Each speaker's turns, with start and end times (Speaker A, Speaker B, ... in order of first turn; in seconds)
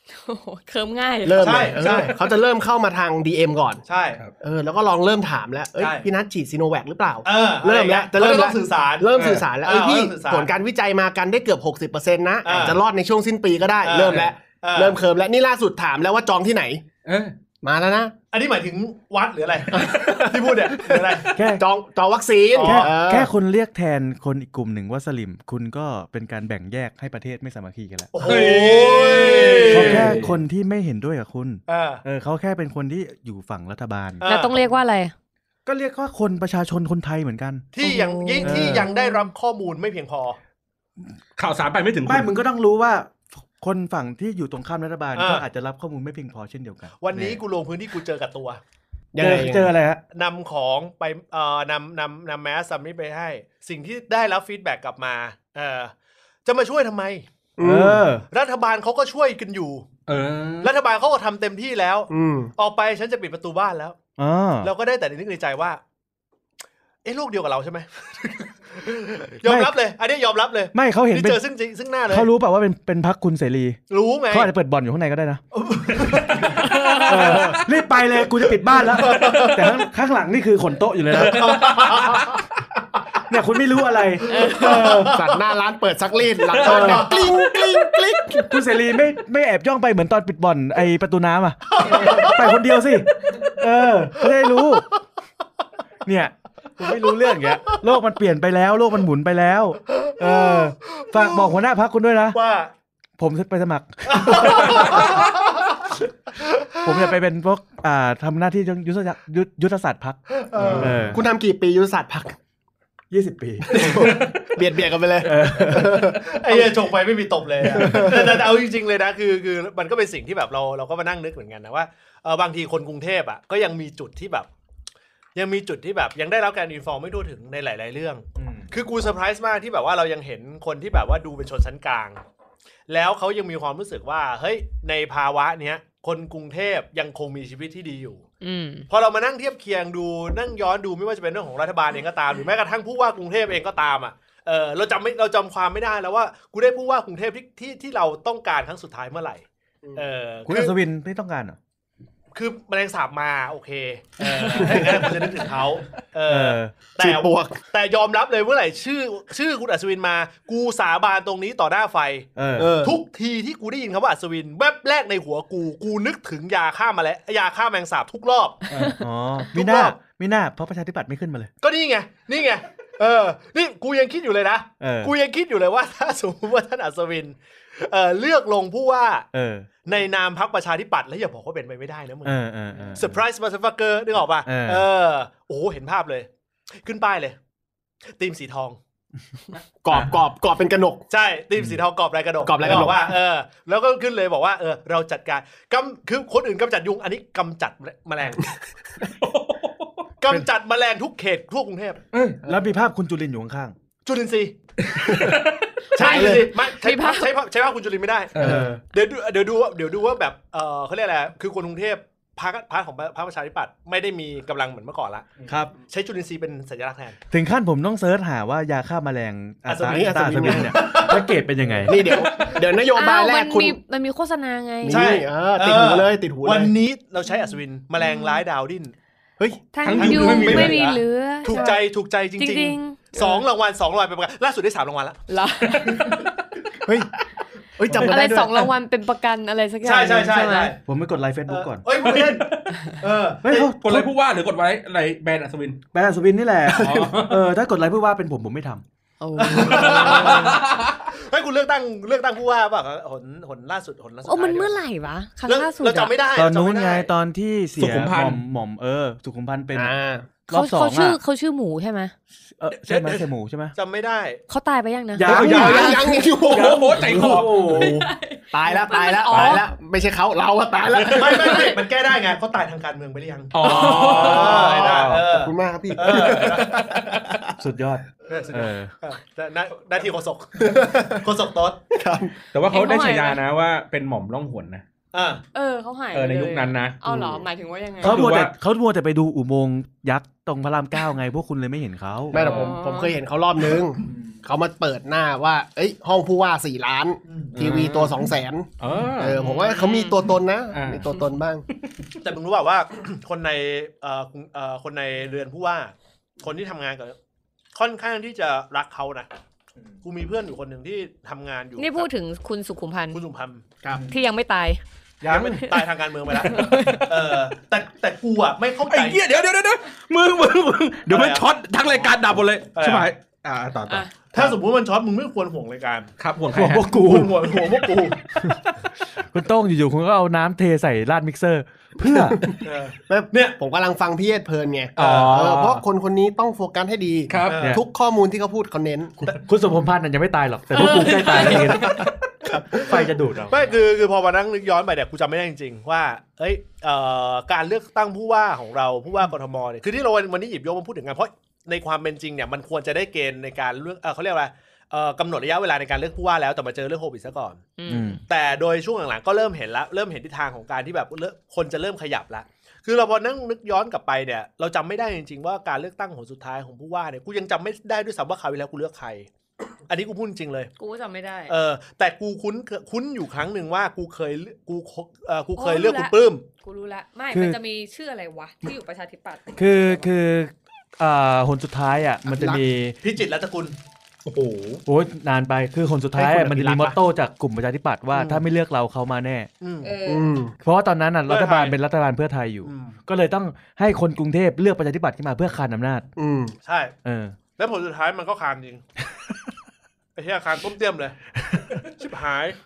Speaker A: 0.1-1.7, 34.2-35.1, 37.8-39.3, 76.6-77.3, 84.3-85.1, 138.4-138.9, 205.9-207.3, 222.9-225.2, 228.0-228.4, 229.7-231.8, 232.4-233.4, 235.3-236.3, 238.0-240.7, 249.2-250.6, 254.2-256.1, 260.5-262.1, 264.5-265.9, 267.6-269.7, 271.2-271.8, 273.6-274.6, 282.7-283.4, 285.5-288.3, 292.4-293.1, 299.3-300.3, 311.8-313.2, 314.1-317.4, 340.7-342.1, 357.8-358.2, 370.8-371.5, 375.6-380.1, 389.8-390.3
Speaker B: 1.2-3.8, 4.4-16.8, 17.6-18.1, 19.7-23.3, 29.1-29.6, 49.1-49.7, 57.6-58.1, 62.1-62.5, 85.0-88.5, 110.7-112.3, 113.7-116.9, 117.6-118.5, 157.0-157.6, 162.6-163.0, 189.8-191.0, 192.4-193.0, 205.1-205.3, 206.0-206.5, 219.8-220.9, 221.8-223.8, 224.8-226.7, 236.8-237.1, 237.8-238.7, 246.7-247.2, 259.7-260.3, 265.2-271.7, 274.1-277.5, 280.6-281.2, 281.9-282.3, 287.0-287.5, 292.3-301.6, 333.1-339.2, 342.4-343.0, 382.3-382.6, 386.1-386.9, 390.0-390.5, 396.1-396.6
Speaker C: 1.4-2.2, 3.9-4.2, 5.8-6.1, 7.2-10.5, 12.4-12.8, 13.8-15.0, 18.3-21.3, 22.5-22.9, 28.1-30.2, 31.7-32.0, 34.2-34.7, 37.7-40.4, 45.1-45.4, 47.0-48.6, 50.1-55.9, 56.4-57.2, 58.3-59.9, 60.6-64.0, 64.6-65.8, 67.0-72.3, 73.9-74.5, 75.5-76.7, 78.8-79.6, 81.1-82.3, 84.3-85.3, 86.6-87.3, 91.7-92.4, 100.0-101.6, 102.3-102.7, 104.1-105.8, 106.4-107.0, 110.3-111.0, 113.7-114.3, 115.7-124.5, 125.3-132.2, 132.9-138.2, 138.9-150.7, 152.3-162.3, 162.8-168.7, 169.5-169.9, 171.6-179.3, 179.8-182.4, 182.9-186.3, 186.8-187.3, 188.2-188.8, 191.1-198.6, 200.2-202.0, 204.0-204.5, 205.9-217.2, 219.7-221.3, 224.8-228.9, 229.9-236.3, 239.8-240.8, 241.5-243.7, 249.3-254.8, 255.4-257.1, 262.8-263.2, 263.8-264.4, 265.3-265.9, 270.9-277.2, 278.3-281.8, 285.1-285.4, 297.3-297.5, 302.2-307.1, 307.7-309.3, 310.0-312.1, 313.1-313.7, 315.2-319.2, 321.1-322.1, 322.7-323.1, 324.3-326.1, 326.9-328.2, 332.5-333.6, 337.4-337.8, 342.7-357.6, 358.3-369.3, 369.9-370.7, 371.5-376.4, 383.0-383.7, 388.1-388.4, 389.6-389.9, 391.3-391.8, 392.6-393.0, 396.6-396.9, 397.6-398.8, 400.1-401.1, 401.9-402.6
Speaker D: 9.1-9.4, 17.1-17.3, 28.2-30.4, 41.4-42.3, 60.1-60.7, 75.9-77.7, 78.9-79.7, 81.1-82.4, 110.6-111.1, 114.1-114.3, 168.7-168.9, 199.0-200.1, 205.0-205.7, 208.3-208.7, 222.0-222.6, 229.8-230.9, 242.0-242.8, 243.7-245.8, 246.7-247.4, 249.8-251.1, 257.8-258.4, 265.6-267.6, 269.3-269.6, 273.5-274.7, 282.5-284.8, 286.1-287.0, 288.0-288.5, 292.3-292.7, 297.5-298.2, 298.8-299.4, 300.7-301.0, 315.2-315.8, 316.5-317.0, 318.9-324.1, 326.2-327.0, 335.0-335.8, 337.3-337.7, 384.2-384.8
Speaker E: 21.3-21.6, 22.6-28.1, 29.7-34.2, 35.6-37.6, 38.4-38.9, 42.0-47.4, 49.2-50.0, 57.6-58.2, 64.2-64.7, 69.4-69.7, 70.7-71.4, 72.1-73.8, 74.3-75.4, 77.0-81.4, 83.3-85.1, 86.6-87.1, 88.4-94.9, 96.0-102.4, 103.2-105.3, 106.8-110.2, 110.7-111.2, 113.1-113.9, 115.2-116.0, 128.4-128.7, 150.5-151.6, 156.3-156.7, 162.3-162.7, 169.0-171.5, 174.8-175.1, 179.3-179.7, 182.2-183.2, 184.4-184.8, 202.1-203.7, 208.3-208.8, 215.4-215.7, 217.3-222.0, 240.8-242.1, 243.4-244.1, 245.9-248.8, 256.3-259.9, 260.5-261.2, 262.6-263.7, 265.1-268.0, 273.9-275.2, 277.6-278.9, 288.0-292.4, 326.5-327.6, 328.3-332.4, 339.2-343.7, 357.9-358.2, 377.3-377.6, 379.6-382.9, 384.9-389.5, 390.6-396.1, 397.0-397.4, 401.4-401.8